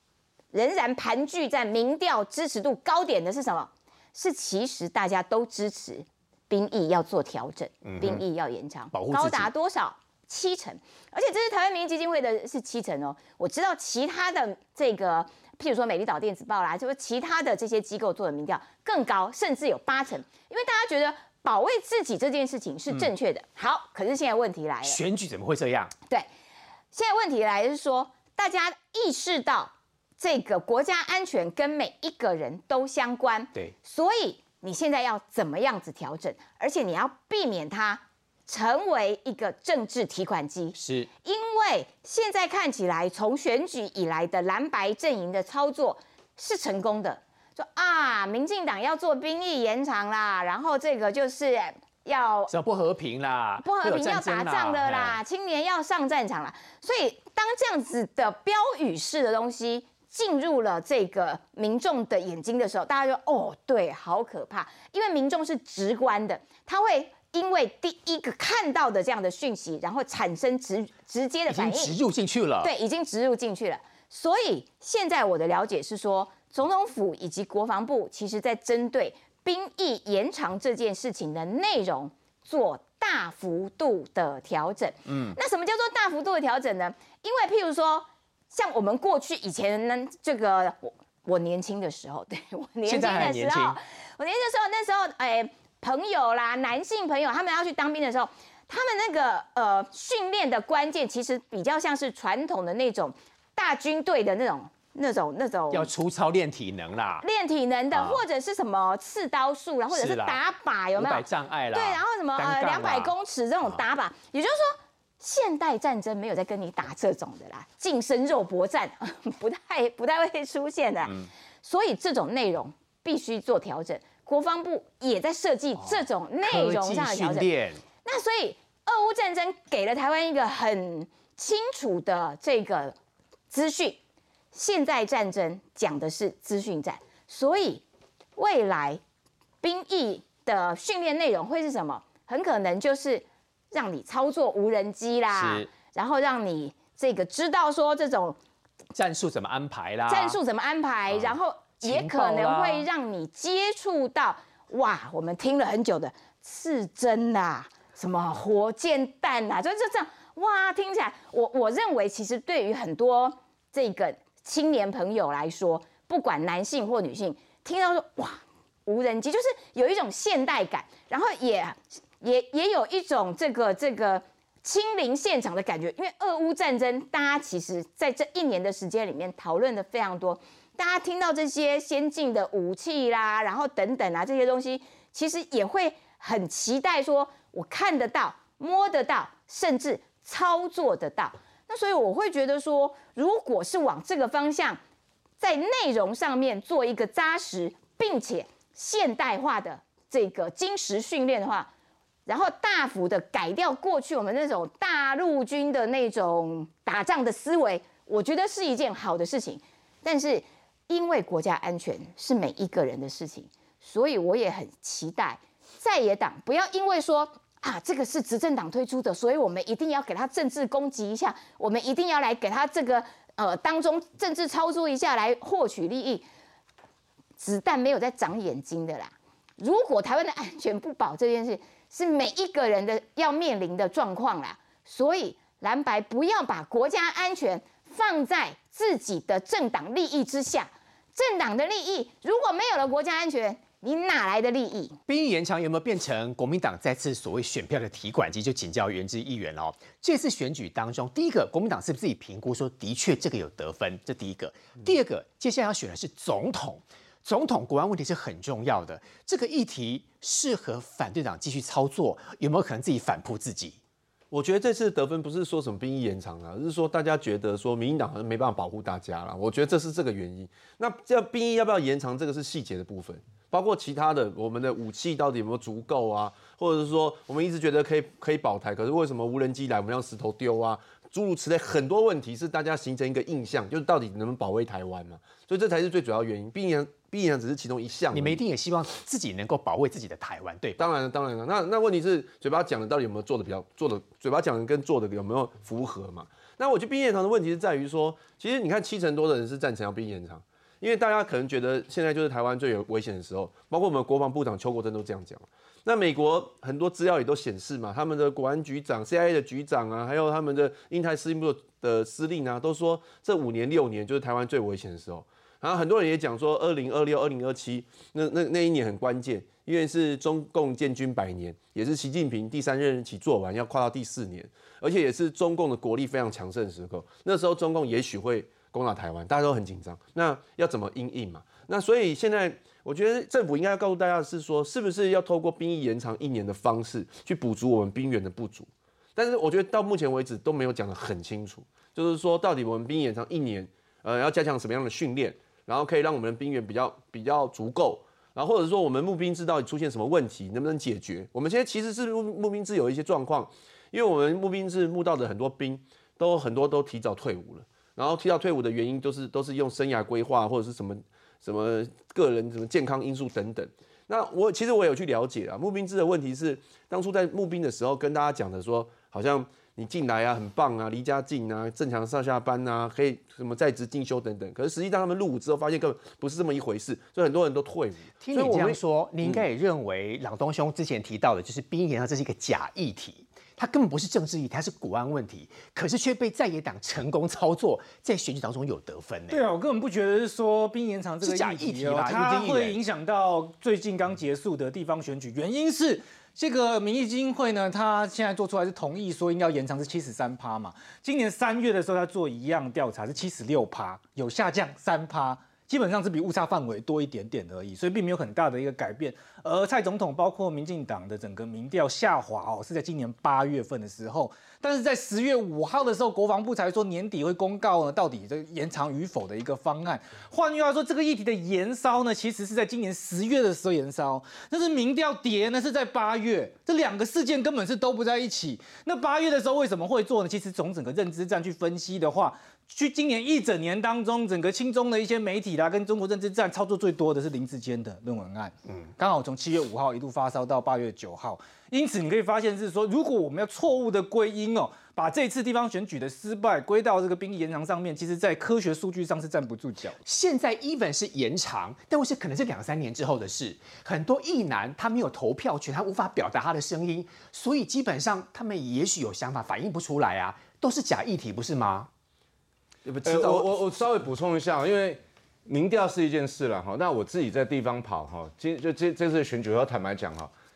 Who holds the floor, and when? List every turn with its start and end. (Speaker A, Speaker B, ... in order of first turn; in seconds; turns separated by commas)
Speaker A: 0.5-25.0, Speaker B: 7.8-8.2, Speaker B: 8.9-9.5, Speaker B: 24.8-25.9, Speaker A: 26.9-52.5, Speaker B: 40.7-41.1, Speaker B: 52.5-55.2, Speaker A: 53.6-71.9, Speaker B: 71.5-72.7, Speaker A: 72.6-105.9, Speaker B: 85.1-85.4, Speaker B: 92.8-93.8, Speaker B: 105.7-107.2, Speaker A: 107.2-127.5, Speaker B: 107.9-108.2, Speaker B: 109.9-110.4, Speaker B: 110.9-113.1, Speaker B: 125.8-127.8, Speaker A: 128.0-132.9, Speaker A: 133.5-134.0, Speaker A: 134.5-137.8, Speaker A: 138.3-139.0, Speaker A: 139.6-148.4, Speaker B: 145.3-145.7, Speaker B: 148.9-150.4, Speaker A: 150.1-194.8, Speaker B: 151.1-152.9, Speaker A: 195.4-201.7, Speaker A: 202.2-226.2, Speaker A: 227.4-245.0, Speaker B: 245.1-263.8, Speaker C: 264.3-288.4, Speaker B: 288.1-290.8, Speaker C: 290.8-379.4, Speaker B: 378.2-389.4, Speaker D: 389.3-450.0, Speaker B: 391.2-392.8, Speaker B: 450.0-461.9, Speaker C: 462.9-463.5, Speaker E: 463.0-470.3